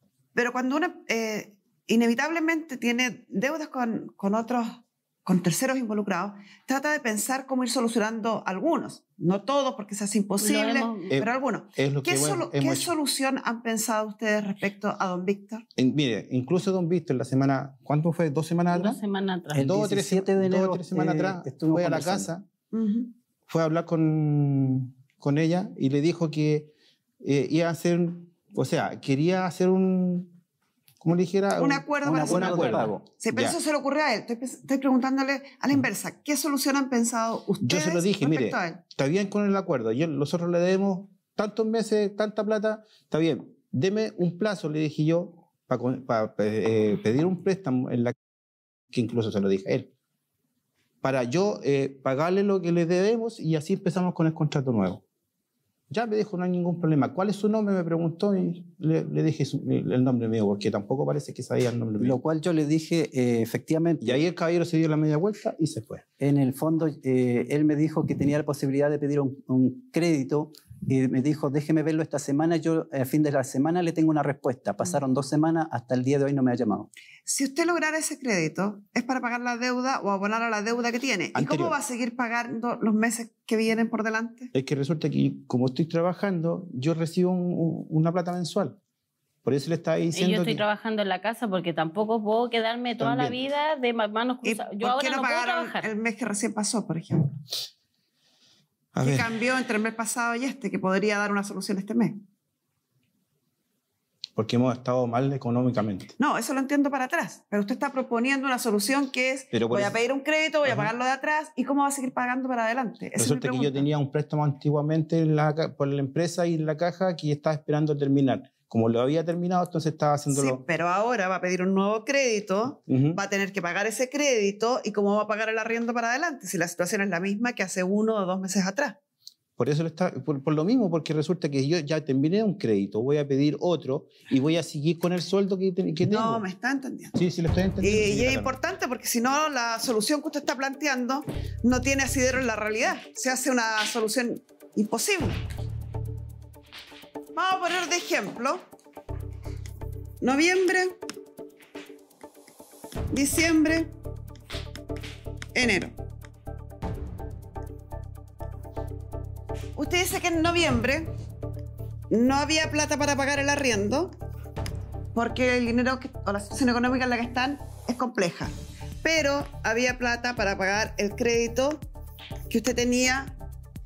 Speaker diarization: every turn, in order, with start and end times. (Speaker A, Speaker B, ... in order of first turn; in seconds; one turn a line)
Speaker A: 0.3-15.7
Speaker B: 10.4-11.1
Speaker C: 11.1-12.9
Speaker C: 15.8-19.0
Speaker B: 18.7-19.6
Speaker D: 19.5-22.3
Speaker C: 19.5-22.4
Speaker A: 22.7-23.1
Speaker C: 23.5-26.7
Speaker C: 27.2-30.3
Speaker C: 31.0-33.5
Speaker A: 31.6-38.8
Speaker D: 32.0-33.0
Speaker C: 37.6-48.1
Speaker C: 48.9-49.9
Speaker C: 51.0-55.0
Speaker C: 55.9-62.2
Speaker D: 62.0-64.2
Speaker C: 64.0-66.0
Speaker D: 66.2-76.9
Speaker A: 77.3-84.5
Speaker C: 81.3-81.8
Speaker C: 84.5-88.8
Speaker C: 89.4-90.6
Speaker B: 90.1-95.9
Speaker C: 93.0-93.4
Speaker A: 94.4-97.3
Speaker C: 98.9-99.3
Speaker A: 99.0-102.2
Speaker C: 104.3-106.1
Speaker A: 106.2-113.9
Speaker C: 109.5-110.0
Speaker C: 110.6-110.9
Speaker C: 113.2-120.6
Speaker A: 120.3-129.0
Speaker C: 122.9-123.2
Speaker C: 129.6-136.4
Speaker A: 136.1-137.2
Speaker C: 137.1-138.5
Speaker A: 137.8-145.4
Speaker A: 147.3-148.6
Speaker A: 150.2-150.9
Speaker A: 153.1-153.9
Speaker A: 155.5-155.9
Speaker A: 159.8-161.1
Speaker A: 162.1-164.1
Speaker A: 165.1-171.8
Speaker A: 172.5-173.3